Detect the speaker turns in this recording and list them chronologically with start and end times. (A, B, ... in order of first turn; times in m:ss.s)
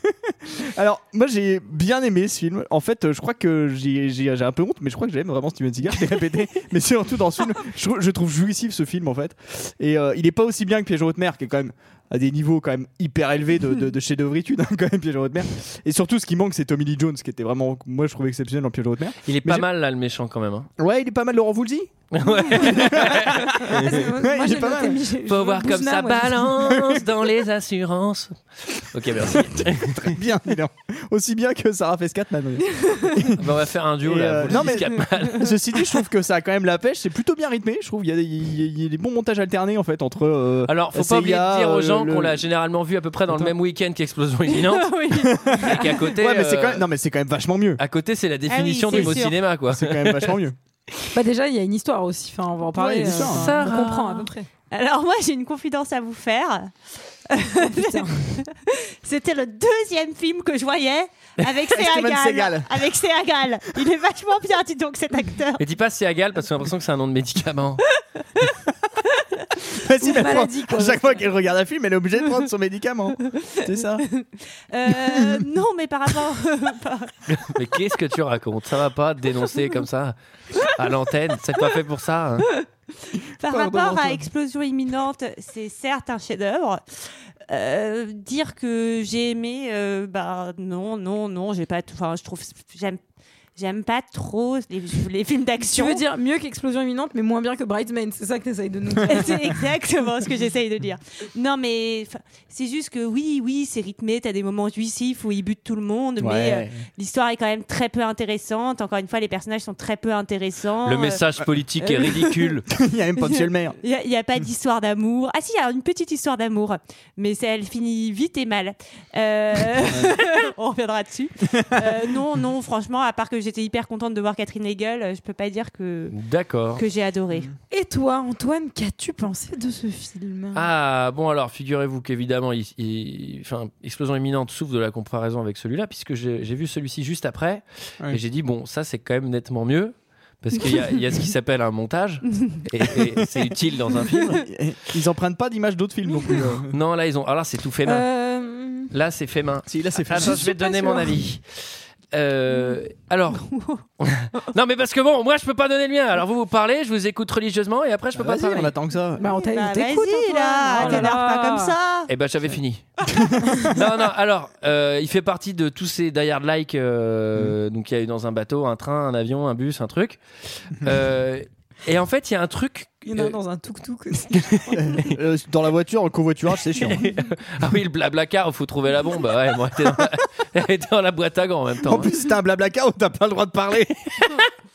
0:00.3-0:19.7 A
0:19.2-0:20.7 B
0:20.8-0:21.9 A
0:22.1-0:23.8 B
0:22.5-0:25.1 A
0:23.7-0:27.1 C
0:25.2-0:30.2 B
0:29.2-0:42.4 A
0:33.3-0:35.6 B
0:40.7-0:44.9 B
0:44.6-0:45.6 D
0:45.2-0:47.8 A
0:45.6-0:46.9 B
0:47.8-0:50.4 B
0:48.5-0:49.4 D
0:48.9-0:50.6 A
0:51.1-0:54.5 C
0:52.8-0:53.4 A
0:53.1-0:54.2 B
0:54.7-0:56.7 D
0:57.3-1:05.6 D
0:57.6-0:58.3 C
1:01.7-1:02.9 A
1:05.6-1:07.8 B
1:09.7-1:14.1 A
1:10.1-1:11.2 C
1:13.4-1:17.1 D
1:15.2-1:15.4 A
1:17.3-1:22.5 B
1:23.1-1:33.0 D
1:23.5-1:24.3 A
1:33.6-1:36.0 D
1:35.6-1:39.6 C
1:39.1-1:51.2 D
1:46.2-1:46.8 A
1:50.8-1:52.7 B
1:52.7-1:53.8 A
1:53.2-2:06.2 D
1:59.9-2:00.1 A
2:01.6-2:01.8 A
2:06.1-2:06.8 B
2:06.8-2:07.5 D
2:07.7-2:10.7 C
2:10.5-2:24.4 B
2:24.3-2:26.7 A
2:26.7-2:28.1 B
2:27.9-2:28.9 C
2:28.9-2:31.4 B
2:29.7-2:30.7 A
2:30.2-2:31.1 C
2:32.1-2:38.7 B
2:33.5-2:33.8 D
2:38.2-2:39.2 A
2:39.2-2:41.8 C
2:39.3-2:42.1 D
2:42.1-2:42.9 B
2:43.2-2:43.6 A
2:43.7-2:53.4 B
2:53.0-2:55.0 C
2:54.3-2:55.0 B
2:54.8-2:57.0 A
2:56.8-3:02.1 B
3:01.8-3:03.9 A